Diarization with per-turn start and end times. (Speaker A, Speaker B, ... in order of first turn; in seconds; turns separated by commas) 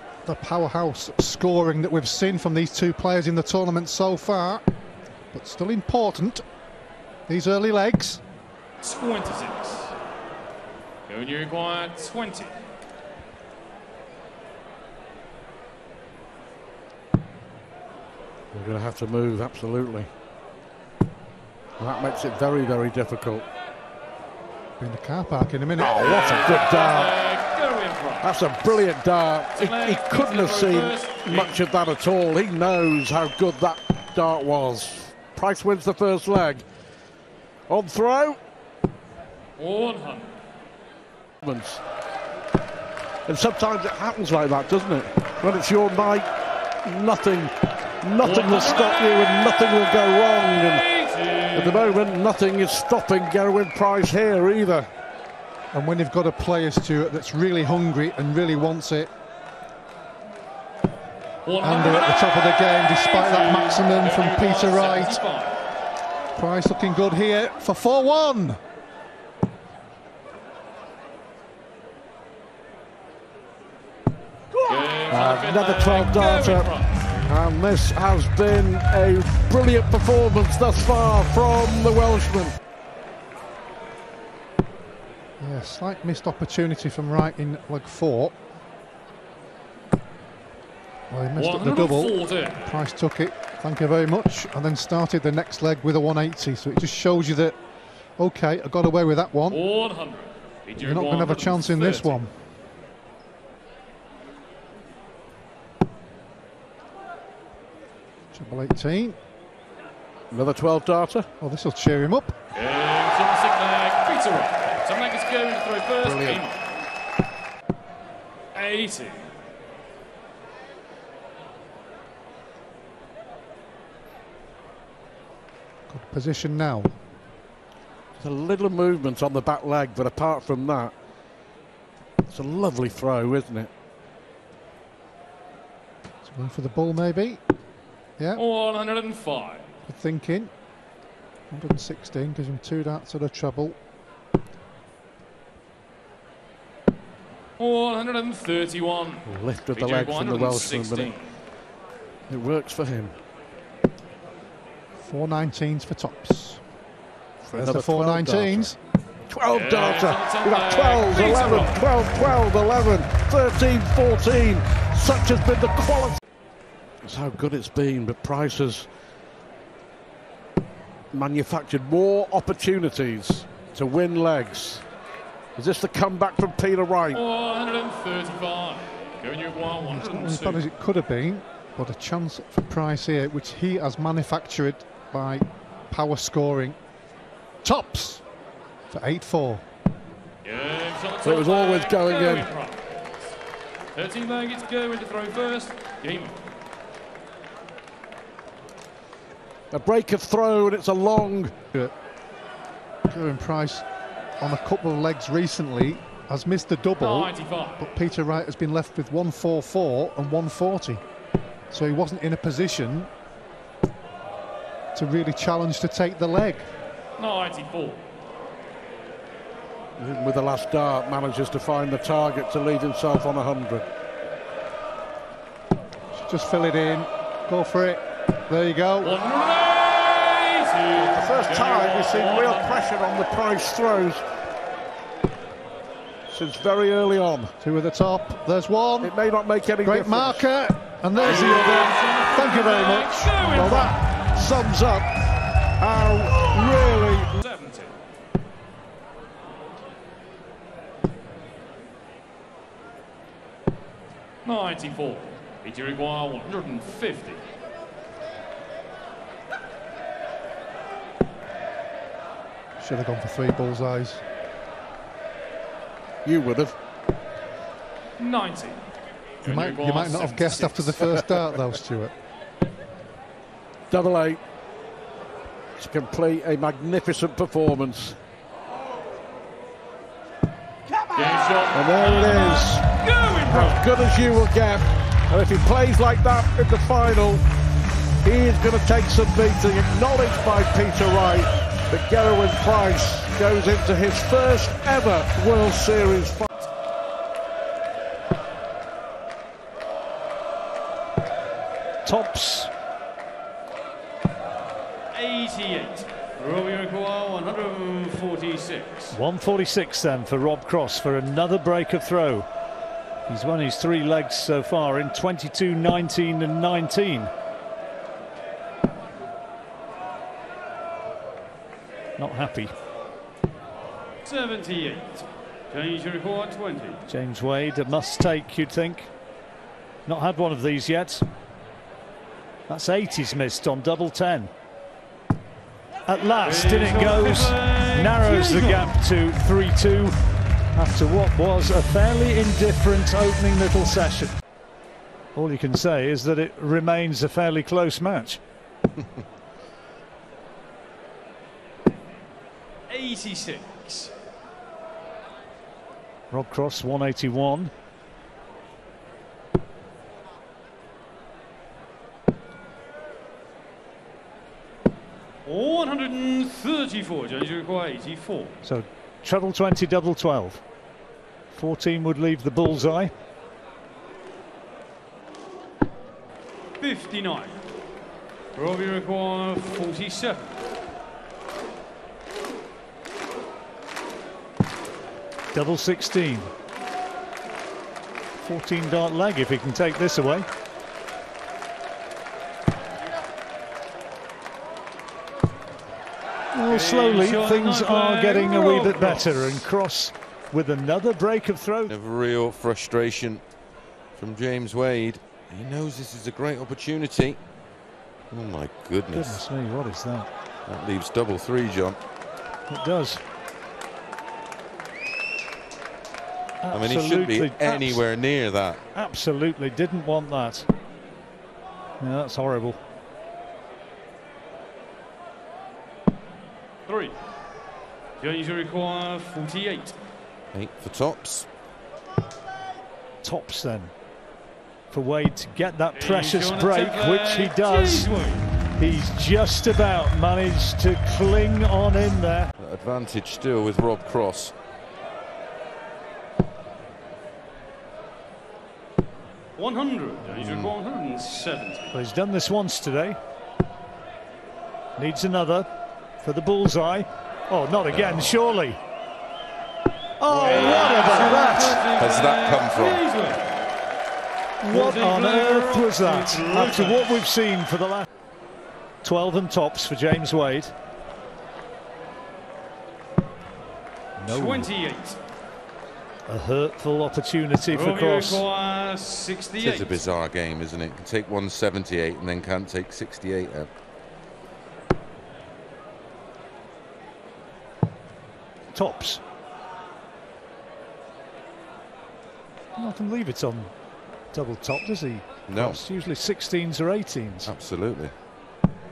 Speaker A: 0.2-4.6, Speaker A: 5.3-6.4, Speaker A: 7.3-8.2, Speaker B: 8.8-9.9, Speaker B: 11.1-12.6, Speaker C: 18.5-20.1, Speaker C: 21.8-23.4, Speaker A: 24.8-26.7, Speaker C: 25.8-27.2, Speaker B: 26.0-28.8, Speaker C: 28.2-36.6, Speaker B: 29.5-31.6, Speaker C: 37.7-38.4, Speaker B: 39.6-40.3, Speaker C: 41.4-41.8, Speaker C: 43.3-46.3, Speaker C: 46.8-50.9, Speaker B: 48.2-49.5, Speaker B: 50.6-52.0, Speaker C: 51.5-54.9, Speaker A: 55.7-59.1, Speaker B: 61.4-65.5, Speaker A: 61.6-65.2, Speaker A: 66.3-68.6, Speaker B: 74.7-77.3, Speaker C: 75.1-76.7, Speaker C: 77.3-82.5, Speaker A: 85.4-88.3, Speaker A: 91.1-97.6, Speaker B: 91.3-92.8, Speaker A: 98.2-99.6, Speaker B: 99.5-102.2, Speaker A: 100.8-102.3, Speaker A: 108.3-109.2, Speaker C: 110.3-111.3, Speaker A: 111.4-112.3, Speaker B: 112.5-116.6, Speaker C: 116.0-116.4, Speaker B: 118.5-119.3, Speaker A: 125.9-126.9, Speaker C: 128.2-130.9, Speaker C: 132.3-133.7, Speaker A: 136.2-137.4, Speaker A: 138.2-138.4, Speaker B: 138.3-139.7, Speaker A: 139.9-140.5, Speaker A: 141.5-143.8, Speaker B: 147.6-151.3, Speaker C: 149.2-151.1, Speaker C: 152.3-153.2, Speaker A: 155.0-156.6, Speaker C: 157.4-158.7, Speaker A: 157.5-158.8, Speaker C: 159.3-166.2, Speaker B: 159.5-161.9, Speaker C: 167.0-168.9, Speaker C: 171.1-174.8, Speaker C: 175.6-177.2, Speaker B: 177.1-180.6, Speaker A: 179.8-186.8, Speaker A: 187.6-188.2, Speaker A: 188.9-189.6, Speaker B: 190.4-193.0, Speaker C: 191.2-192.5, Speaker B: 193.9-196.4, Speaker C: 199.7-201.6, Speaker A: 203.1-203.8, Speaker A: 204.4-211.0, Speaker B: 207.0-207.9, Speaker A: 211.7-213.1, Speaker A: 214.9-216.7, Speaker B: 217.2-218.0, Speaker C: 220.0-223.8, Speaker A: 226.1-229.2, Speaker B: 229.0-232.9, Speaker C: 230.9-234.2, Speaker C: 236.3-237.5, Speaker A: 237.6-239.1, Speaker C: 239.0-240.5, Speaker A: 239.8-243.9, Speaker B: 241.2-244.0, Speaker C: 243.5-245.1, Speaker C: 245.8-247.3, Speaker B: 247.3-247.9, Speaker B: 254.4-257.4, Speaker A: 262.8-264.2, Speaker C: 266.2-266.7, Speaker B: 268.2-268.8, Speaker B: 269.4-271.1, Speaker A: 269.4-272.1, Speaker C: 273.9-274.4, Speaker C: 275.8-278.2, Speaker B: 281.1-283.8, Speaker C: 281.7-282.9, Speaker C: 283.4-287.4, Speaker C: 288.2-296.5, Speaker D: 302.0-302.7, Speaker E: 305.1-309.1, Speaker D: 309.1-312.5, Speaker D: 313.3-317.3, Speaker D: 322.2-322.7, Speaker E: 324.2-327.0, Speaker D: 327.1-329.1, Speaker D: 330.1-331.2, Speaker D: 332.7-334.5, Speaker D: 336.1-340.1, Speaker E: 336.4-338.9, Speaker D: 340.7-344.3, Speaker D: 345.3-348.4, Speaker E: 352.9-354.1, Speaker D: 356.3-357.7, Speaker E: 365.4-368.6, Speaker D: 368.6-370.6, Speaker D: 371.5-373.1, Speaker E: 376.8-377.6, Speaker E: 378.5-380.6, Speaker D: 385.5-386.5, Speaker D: 388.4-390.5, Speaker D: 396.5-401.9, Speaker E: 396.6-399.3, Speaker F: 401.9-403.4, Speaker F: 404.1-407.4, Speaker F: 408.3-409.4, Speaker D: 409.1-410.3, Speaker F: 410.6-412.0, Speaker D: 412.7-413.2, Speaker D: 416.6-418.0, Speaker F: 416.7-418.8, Speaker D: 418.9-420.7, Speaker D: 422.0-422.8, Speaker E: 426.9-427.1, Speaker E: 428.2-429.9, Speaker F: 430.5-431.5, Speaker D: 433.2-433.9, Speaker D: 434.9-438.1, Speaker E: 435.9-438.5, Speaker D: 438.8-442.5, Speaker F: 442.6-444.5, Speaker E: 449.6-451.9, Speaker F: 450.3-450.8, Speaker D: 451.9-453.2, Speaker D: 455.0-455.7, Speaker D: 456.2-458.8, Speaker F: 457.9-458.3, Speaker D: 460.2-461.8, Speaker F: 460.3-460.9, Speaker E: 460.4-463.4, Speaker F: 461.9-463.1, Speaker D: 464.6-468.1, Speaker E: 464.7-467.2, Speaker D: 469.0-470.7, Speaker D: 474.2-474.7, Speaker E: 474.3-475.2, Speaker D: 476.3-478.4, Speaker E: 477.7-480.1, Speaker F: 479.6-483.7, Speaker D: 488.7-489.2, Speaker D: 492.8-493.7, Speaker D: 494.3-497.5, Speaker F: 495.5-495.8, Speaker F: 497.4-498.1